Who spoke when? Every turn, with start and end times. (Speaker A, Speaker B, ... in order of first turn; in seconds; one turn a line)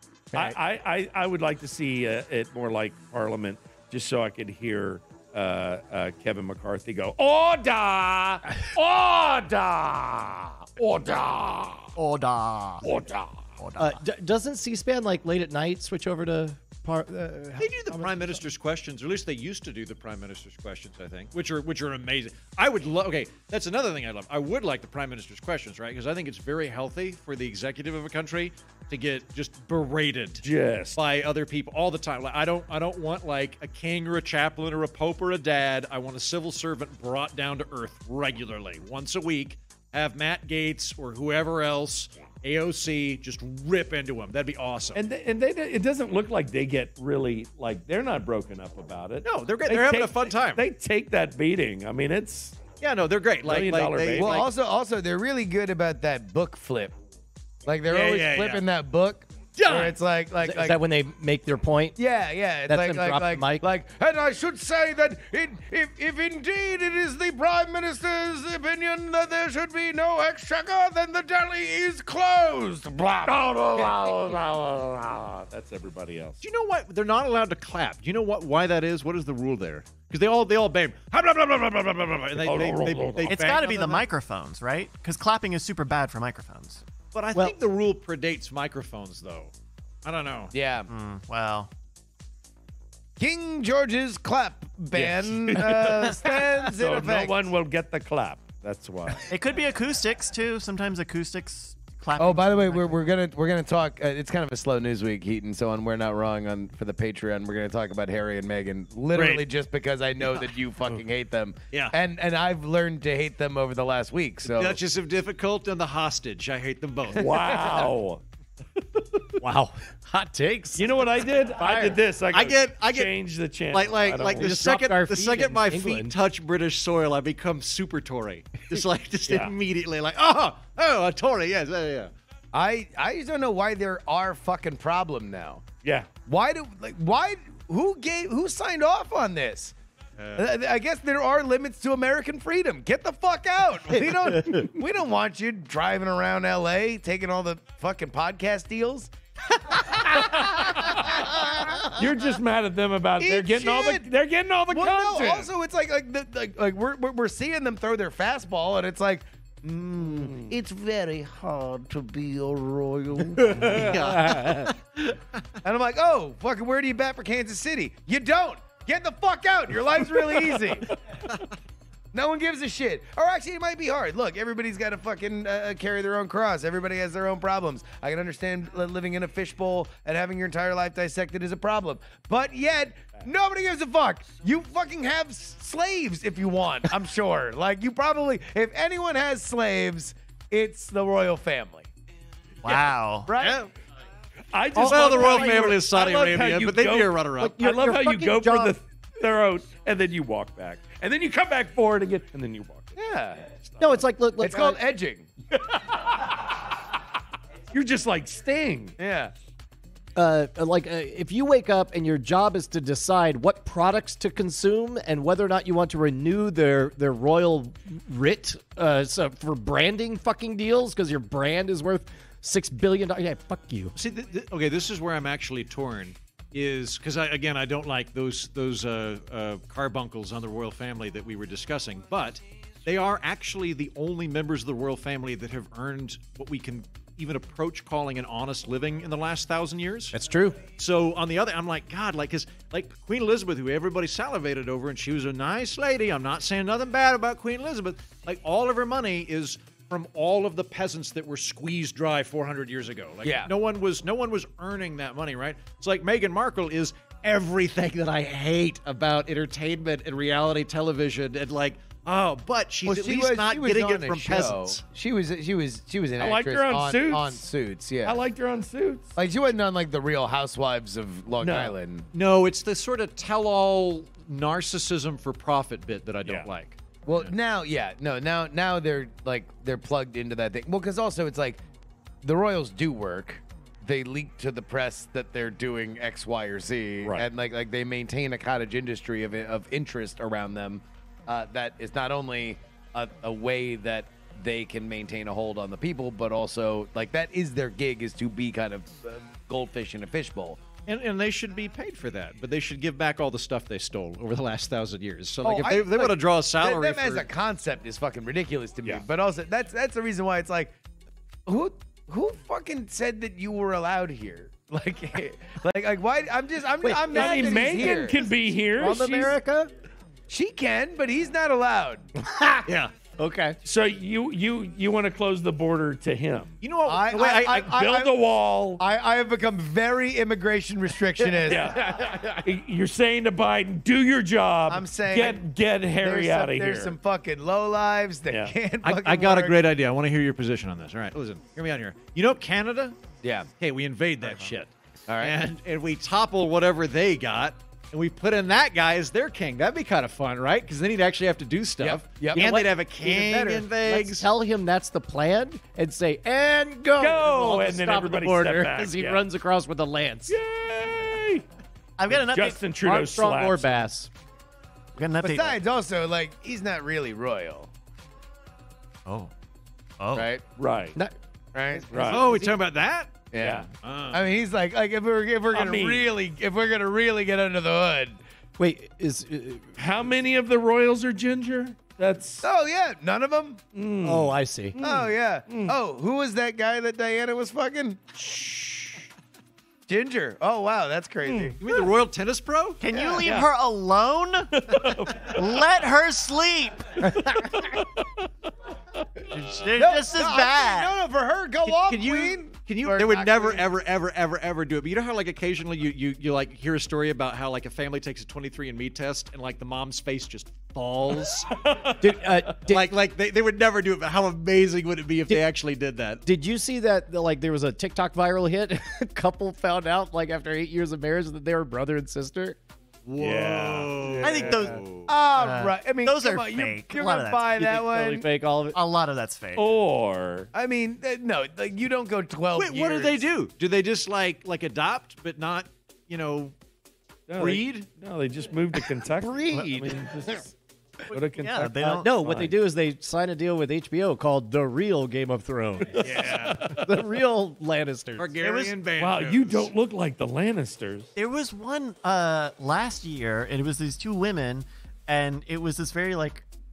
Speaker A: 0.3-11.9
Speaker B: 12.0-12.9
Speaker A: 12.8-13.5
Speaker B: 13.6-14.0
Speaker C: 13.8-18.4
Speaker D: 17.6-30.4
Speaker A: 30.4-31.0
Speaker D: 31.0-45.0
Speaker A: 45.0-52.6
Speaker D: 49.2-50.6
Speaker D: 52.8-54.5
Speaker A: 53.4-54.5
Speaker E: 54.1-57.0
Speaker E: 57.6-60.8
Speaker D: 57.9-58.6
Speaker D: 59.6-60.0
Speaker C: 60.4-62.0
Speaker E: 62.0-74.0
Speaker C: 62.7-63.6
Speaker A: 73.2-76.4
Speaker D: 76.4-84.1
Speaker A: 82.4-83.4
Speaker B: 83.3-86.8
Speaker D: 87.1-89.5
Speaker D: 90.0-90.5
Speaker E: 90.5-90.9
Speaker B: 90.9-91.7
Speaker E: 93.2-97.3
Speaker A: 95.0-99.3
Speaker B: 95.9-96.4
Speaker B: 99.3-103.0
Speaker E: 102.2-114.8
Speaker D: 109.2-109.5
Speaker D: 114.4-117.9
Speaker A: 117.2-118.2
Speaker A: 118.8-119.4
Speaker C: 119.4-122.0
Speaker A: 120.8-124.5
Speaker D: 122.3-123.1
Speaker D: 123.7-132.1
Speaker C: 124.3-126.2
Speaker E: 132.5-135.7
Speaker A: 135.8-136.1
Speaker E: 136.2-139.8
Speaker D: 140.2-140.5
Speaker E: 140.4-149.1
Speaker E: 149.7-152.0
Speaker A: 150.2-151.2
Speaker A: 151.9-155.5
Speaker E: 153.2-154.1
Speaker E: 154.7-164.0
Speaker A: 160.2-160.5
Speaker C: 163.4-164.7
Speaker D: 163.6-165.0
Speaker E: 165.6-171.0
Speaker E: 172.1-191.9
Speaker B: 192.6-193.3
Speaker E: 193.3-193.6
Speaker D: 193.4-193.7
Speaker A: 194.5-204.0
Speaker C: 194.8-195.7
Speaker D: 194.8-197.6
Speaker C: 197.4-198.8
Speaker E: 203.0-203.4
Speaker C: 203.8-204.8
Speaker E: 204.4-205.3
Speaker A: 205.5-206.6
Speaker A: 207.7-209.0
Speaker E: 209.0-209.3
Speaker C: 210.2-223.9
Speaker D: 223.9-240.2
Speaker C: 240.1-240.6
Speaker D: 240.8-264.8
Speaker E: 253.2-253.5
Speaker E: 262.9-268.2
Speaker A: 266.2-267.4
Speaker A: 268.0-269.1
Speaker E: 269.2-272.1
Speaker A: 271.4-271.7
Speaker D: 272.1-277.3
Speaker E: 277.1-281.6
Speaker E: 282.2-300.6
Speaker D: 300.9-307.3
Speaker E: 305.4-310.8
Speaker E: 311.5-318.3
Speaker C: 316.8-317.7
Speaker A: 317.1-319.4
Speaker C: 318.7-319.7
Speaker E: 320.3-322.1
Speaker C: 322.2-323.6
Speaker D: 322.7-322.9
Speaker A: 323.6-326.6
Speaker D: 326.6-328.0
Speaker E: 326.9-328.1
Speaker A: 327.8-328.8
Speaker E: 328.8-331.8
Speaker C: 331.5-332.5
Speaker A: 331.5-337.0
Speaker E: 334.7-335.4
Speaker E: 336.0-339.6
Speaker D: 338.8-343.0
Speaker E: 343.2-343.5
Speaker D: 343.6-354.3
Speaker E: 345.1-345.4
Speaker E: 351.8-352.4
Speaker C: 352.3-360.4
Speaker A: 357.0-359.2
Speaker A: 360.3-361.4
Speaker B: 362.0-362.6
Speaker A: 362.1-363.9
Speaker C: 362.8-364.1
Speaker B: 365.0-365.6
Speaker E: 365.2-367.7
Speaker B: 369.1-369.3
Speaker B: 370.0-370.3
Speaker E: 370.1-370.4
Speaker A: 370.6-371.0
Speaker E: 371.5-372.5
Speaker A: 371.9-372.3
Speaker D: 372.0-373.2
Speaker E: 373.3-378.2
Speaker A: 373.4-373.7
Speaker D: 373.8-374.2
Speaker A: 375.5-376.1
Speaker C: 378.6-379.7
Speaker A: 379.8-382.5
Speaker E: 382.4-383.6
Speaker A: 383.8-385.8
Speaker C: 384.0-384.8
Speaker E: 384.8-388.7
Speaker A: 388.3-389.0
Speaker E: 389.9-391.6
Speaker A: 391.2-391.8
Speaker D: 391.6-392.8
Speaker B: 392.8-397.1
Speaker A: 393.2-393.5
Speaker A: 394.5-395.6
Speaker C: 397.0-397.6
Speaker A: 397.2-398.3
Speaker B: 399.3-400.9
Speaker E: 399.8-403.7
Speaker D: 401.7-411.6
Speaker A: 411.5-412.3
Speaker C: 412.0-412.9
Speaker D: 412.7-416.2
Speaker C: 416.2-422.6
Speaker D: 423.1-425.1
Speaker A: 423.2-424.7
Speaker B: 424.2-424.8
Speaker E: 425.1-428.3
Speaker B: 425.3-427.5
Speaker C: 427.6-428.8
Speaker B: 428.7-429.7
Speaker A: 429.6-430.5
Speaker E: 430.5-433.2
Speaker D: 432.6-436.6
Speaker A: 437.3-440.6
Speaker D: 437.4-437.8
Speaker C: 439.2-440.4
Speaker A: 441.1-442.5
Speaker B: 441.1-442.1
Speaker C: 441.9-448.3
Speaker D: 446.0-446.7
Speaker A: 446.1-447.1
Speaker D: 448.2-449.7
Speaker B: 448.4-448.8
Speaker A: 449.0-451.1
Speaker B: 451.2-456.5